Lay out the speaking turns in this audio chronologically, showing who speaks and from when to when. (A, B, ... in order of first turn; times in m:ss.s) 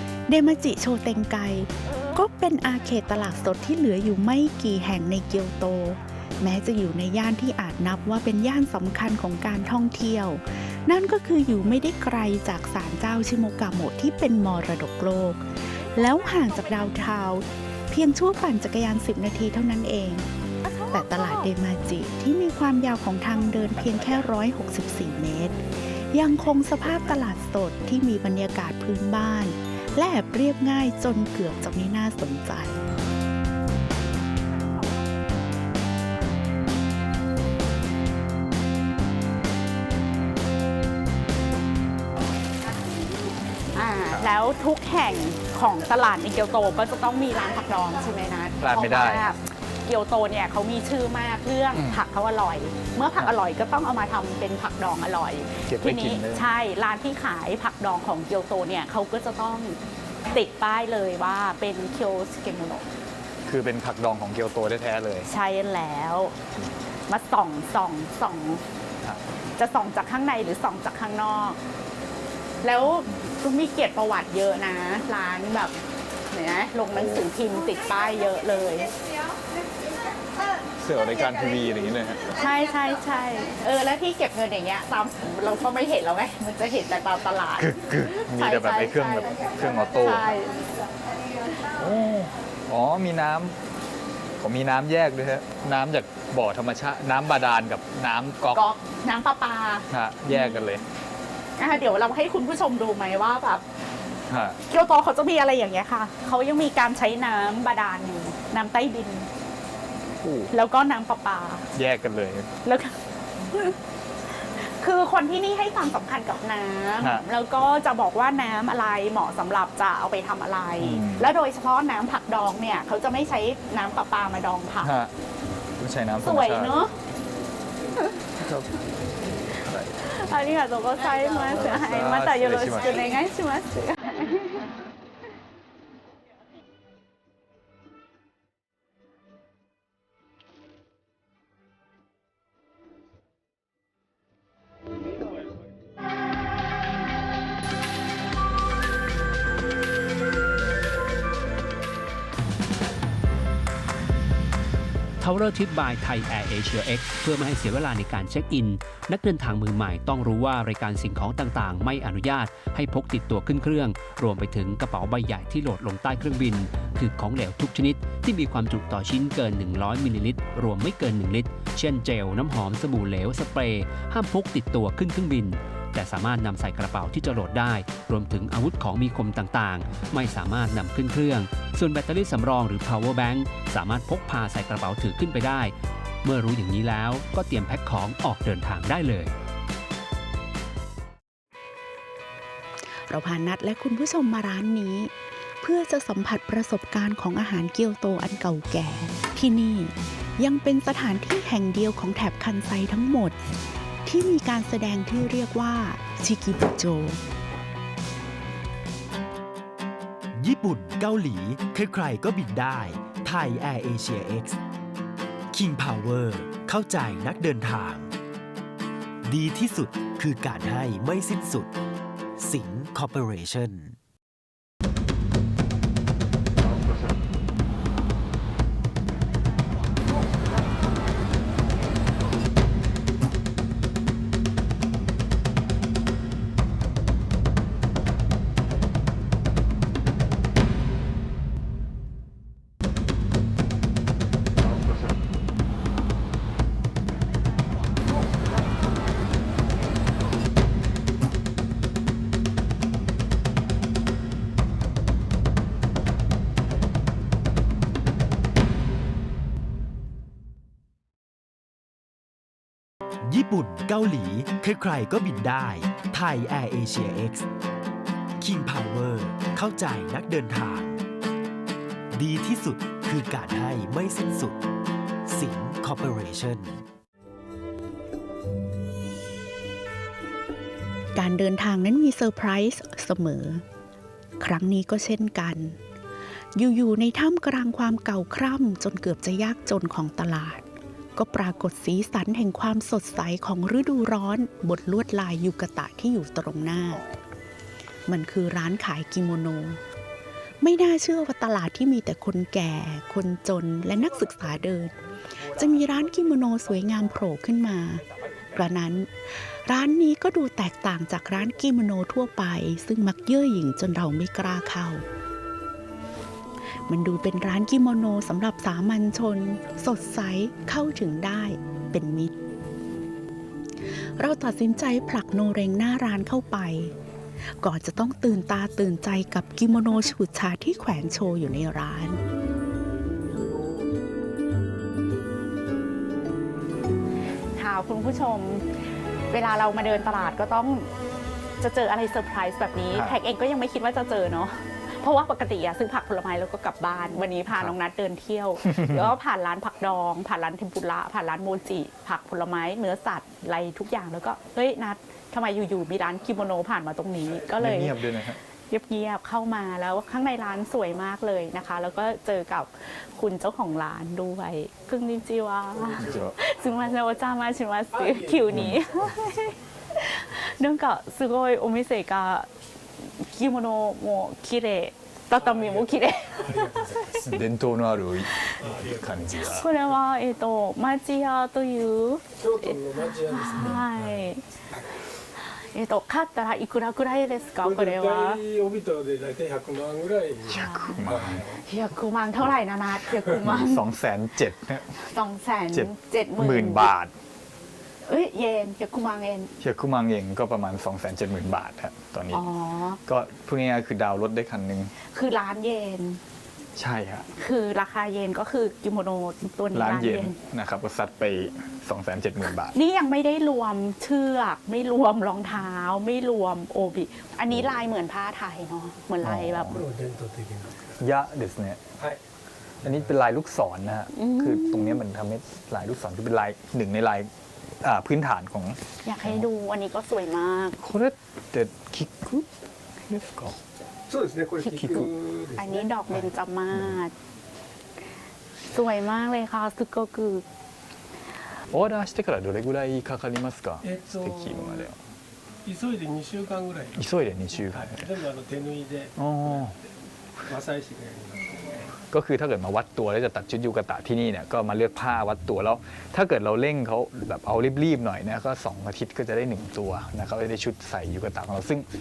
0:00.3-0:20.3 A
0:01.8-0:02.3 B
0:15.9-0:17.2 B
0:20.6-0:21.5 B
0:20.9-0:32.8 A
0:23.8-0:24.2 C
0:43.8-0:59.8 B
0:48.6-0:49.2 C
0:51.7-0:52.0 C
0:55.7-0:56.5 C
1:00.3-1:02.9 B
1:03.5-1:05.3 C
1:05.3-1:06.4 B
1:07.1-1:08.6 B
1:09.6-1:11.6 B
1:12.6-1:15.8 B
1:16.3-1:18.9 B
1:16.9-1:17.2 C
1:20.8-1:22.4 C
1:22.4-1:29.4 B
1:27.6-1:30.3 C
1:30.0-1:30.6 B
1:31.8-1:33.6 C
1:34.4-1:38.6 C
1:38.5-1:40.6 B
1:39.9-1:40.8 C
1:41.6-1:43.6 B
1:44.3-1:44.6 C
1:44.6-1:49.3 B
1:50.2-1:50.5 C
1:50.5-1:51.7 B
1:51.8-1:52.5 C
1:52.6-1:53.0 B
1:53.5-1:53.8 B
1:54.3-2:04.9 B
2:00.8-2:01.3 C
2:04.8-2:05.1 C
2:05.8-2:06.9 C
2:06.2-2:06.9 B
2:08.4-2:08.8 C
2:09.6-2:09.9 C
2:10.0-2:14.6 B
2:11.4-2:13.2 C
2:35.2-3:09.3 D
3:13.1-3:23.4 A
3:24.0-3:27.2 A
3:30.3-3:34.6 E
3:35.5-3:38.1 E
3:39.2-3:41.7 E
3:42.4-3:44.0 E
4:23.2-4:27.5 E
4:28.4-4:31.0 E
4:32.1-4:34.6 E
4:35.3-4:36.8 E
4:41.2-4:43.6 A
4:44.4-4:45.8 A
4:46.6-4:50.6 A
4:51.2-4:57.0 A
4:58.1-4:59.8 A
5:00.6-5:15.0 A
5:08.2-5:08.4 C
5:16.9-5:22.4 A
5:24.2-5:27.0 A
5:27.6-5:32.2 A
5:37.6-5:38.7 B
5:39.3-5:40.9 B
5:41.6-5:58.1 B
5:48.7-5:49.1 C
5:57.6-5:58.4 C
5:58.7-6:12.5 B
6:05.8-6:06.3 F
6:06.0-6:06.4 C
6:07.9-6:09.2 F
6:08.5-6:08.8 C
6:13.0-6:17.4 B
6:15.4-6:17.1 F
6:17.1-6:19.7 C
6:18.6-6:19.2 F
6:19.3-6:24.5 B
6:22.4-6:24.9 F
6:25.5-6:28.4 B
6:27.6-6:31.6 F
6:30.5-6:31.0 B
6:30.5-6:31.4 C
6:31.7-6:33.8 B
6:33.4-6:34.9 C
6:35.0-6:36.9 B
6:35.7-6:37.1 C
6:38.1-6:39.5 B
6:39.6-6:42.4 C
6:42.3-6:43.0 B
6:43.0-6:44.9 C
6:45.0-6:46.2 B
6:46.8-6:47.3 C
6:47.4-6:50.4 B
6:49.7-6:52.8 C
6:52.7-6:59.8 B
6:59.2-6:59.8 C
6:59.7-7:00.9 F
7:01.0-7:01.8 C
7:02.8-7:03.1 F
7:02.8-7:07.3 C
7:04.1-7:05.0 B
7:07.8-7:09.4 C
7:09.0-7:10.8 B
7:10.8-7:12.5 C
7:13.1-7:13.6 C
7:14.1-7:16.0 F
7:14.6-7:15.1 C
7:15.6-7:17.1 B
7:18.7-7:20.4 B
7:21.7-7:25.0 C
7:23.8-7:24.9 F
7:25.6-7:29.1 F
7:27.0-7:28.0 C
7:29.2-7:29.7 C
7:30.4-7:31.9 F
7:32.1-7:41.9 C